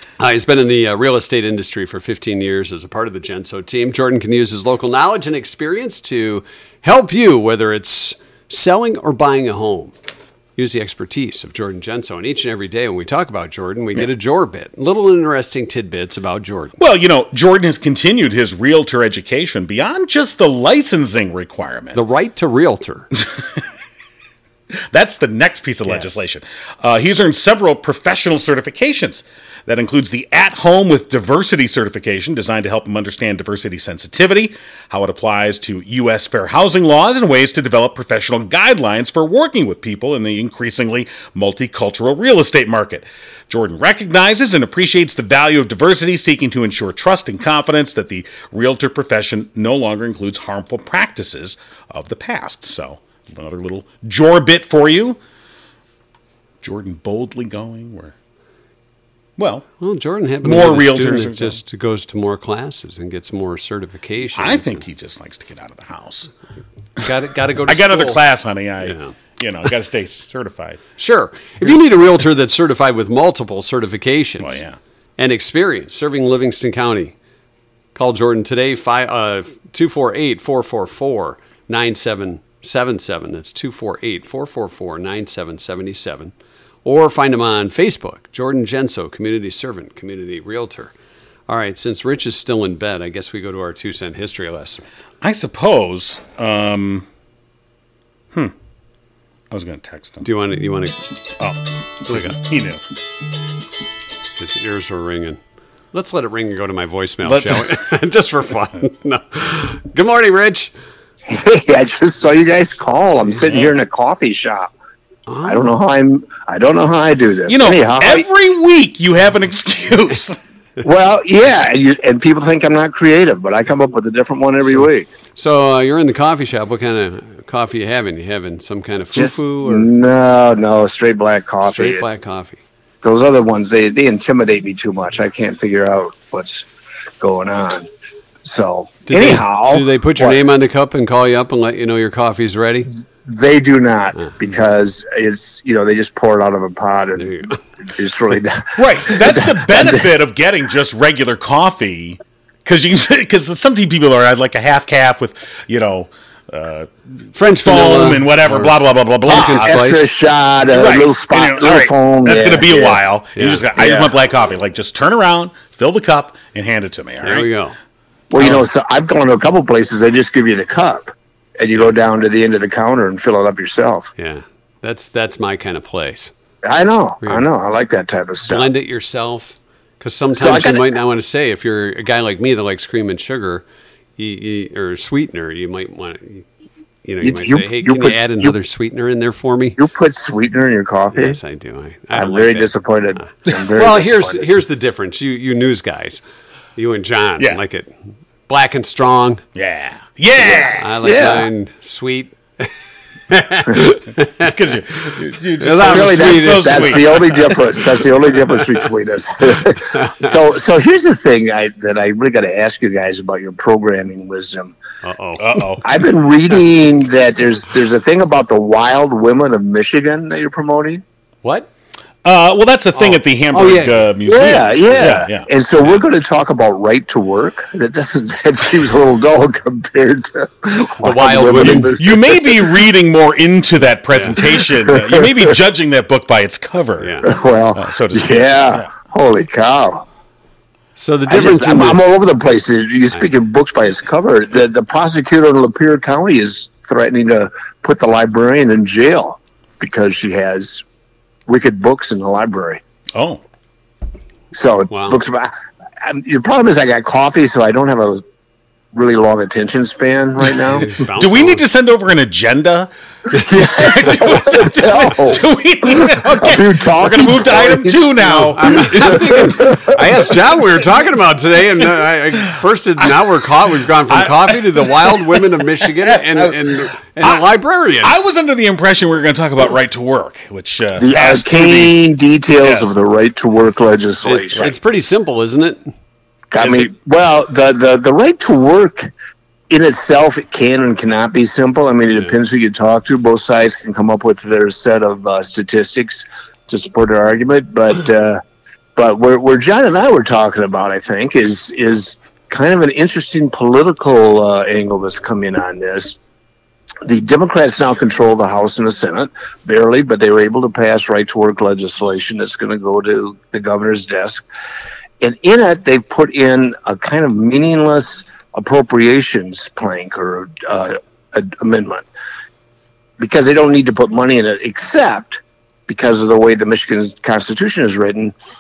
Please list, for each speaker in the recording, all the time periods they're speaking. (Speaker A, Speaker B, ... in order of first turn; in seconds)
Speaker A: 0.2-9.9, 10.6-16.8, 21.9-23.1, 59.8-64.8, 67.0-68.2, 68.8-69.2, 71.0-74.6, 75.2-77.2, 78.0-86.3, 86.8-90.9, 91.5-94.8, 100.2-101.0, 102.1-102.4, 104.4-105.4, 105.9-110.7, 115.3-115.7, 124.7-129.9, 131.6-132.6, 139.1-142.9, 147.2-147.6, 157.3-160.1, 163.3-163.7, 167.2-167.8, 174.2-176.3, 178.5-183.6, 184.2-186.4, 187.1-189.8, 191.1-196.2, 196.8-197.9, 198.5-199.4, 200.6-202.7, 203.3-204.5, 205.1-207.5, 215.0-215.8, 221.4-221.7, 222.9-224.1, 224.9-225.2, 231.0-232.0, 234.1-234.4, 237.0-237.3, 241.0-242.0, 254.9-255.2, 260.7-261.6, 268.5-278.2, 284.2-285.9
Speaker B: 16.8-22.0, 23.2-23.6, 24.8-55.2, 56.6-58.1, 59.4-59.7, 60.4-61.6, 64.3-66.3, 67.7-70.8, 74.4-74.8, 95.2-97.1, 99.5-100.3, 101.4-102.8, 107.2-107.7, 117.5-120.4, 148.8-156.9, 157.5-159.9, 160.7-167.5, 168.4-168.6, 199.6-200.9, 204.4-207.6, 215.4-216.1, 222.2-225.5, 231.6-237.2, 237.7-238.9, 253.2-253.4, 261.0-269.6, 274.1-277.4, 278.0-282.0, 282.6-282.9, 286.6-286.9
Speaker C: 111.3-114.7, 115.4-118.3, 120.8-125.1, 129.1-132.0, 133.0-136.7, 137.2-137.9, 138.4-140.4, 143.3-150.1, 159.3-163.0, 163.8-164.1, 168.3-174.1, 176.6-178.7, 180.3-180.9, 187.2-188.6, 189.8-191.4, 192.2-194.5, 201.0-201.5, 205.8-214.8, 215.8-221.0, 224.3-232.8, 234.6-235.4, 237.2-240.1, 241.3-250.8, 251.5-252.8, 254.5-255.5, 256.0-258.2, 258.9-261.0, 263.3-269.9, 281.0-284.7, 286.5-289.1, 289.7-298.4, 299.0-306.2, 307.1-314.4, 315.2-322.1, 323.2-328.3